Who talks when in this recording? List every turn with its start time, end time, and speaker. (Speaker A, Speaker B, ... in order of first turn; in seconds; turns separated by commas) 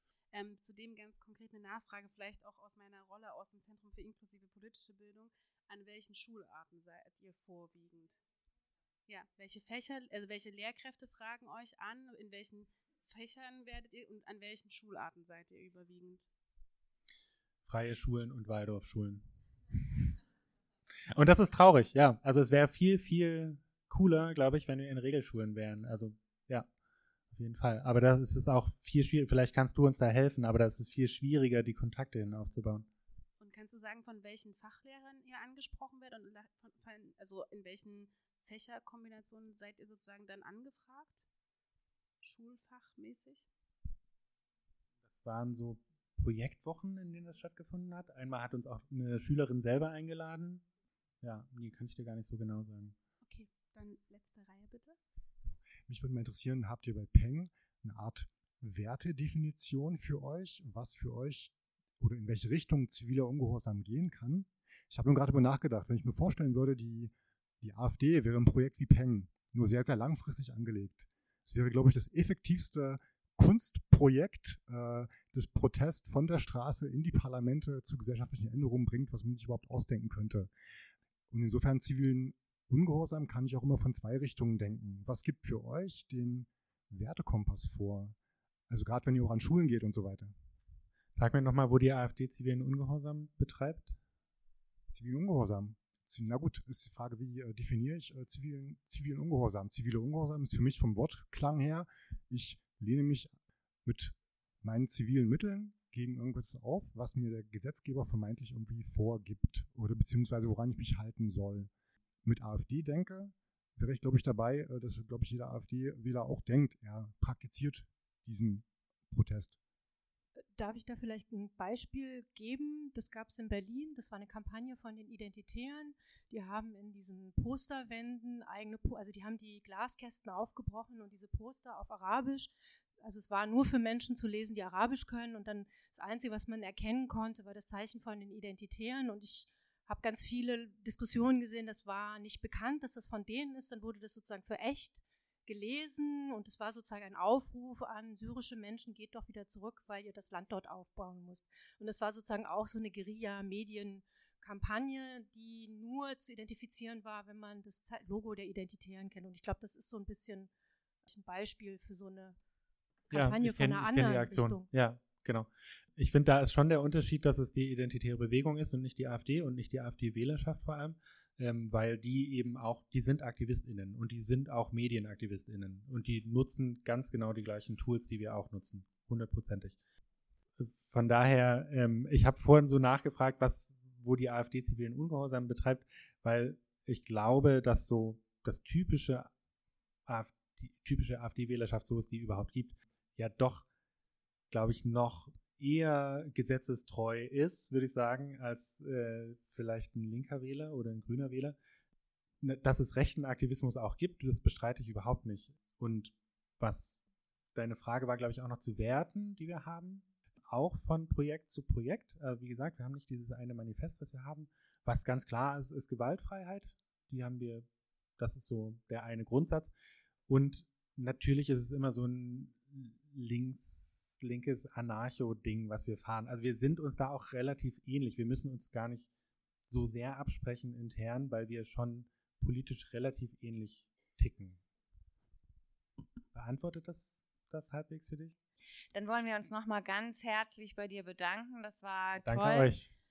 Speaker A: 0.3-8.2, Speaker A: 9.1-16.3, Speaker B: 17.7-19.2, Speaker B: 21.1-26.7, Speaker B: 27.3-32.9, Speaker A: 33.4-41.2, Speaker A: 42.2-43.5, Speaker B: 45.0-50.6, Speaker B: 51.2-53.0, Speaker A: 53.2-55.0, Speaker C: 55.5-80.5, Speaker C: 81.3-88.2, Speaker C: 88.7-90.3, Speaker B: 91.2-94.0, Speaker C: 94.9-103.3, Speaker C: 103.8-111.7, Speaker C: 112.2-119.6, Speaker D: 120.5-160.5, Speaker D: 161.1-162.4, Speaker D: 163.1-164.7, Speaker B: 163.1-179.8, Speaker B: 180.6-189.3, Speaker B: 190.1-193.7, Speaker B: 194.5-201.6, Speaker B: 202.4-207.0, Speaker B: 207.6-217.7, Speaker B: 218.2-219.7, Speaker B: 220.3-229.1, Speaker B: 229.7-234.6, Speaker B: 236.3-238.3, Speaker E: 238.9-242.8, Speaker B: 242.2-242.9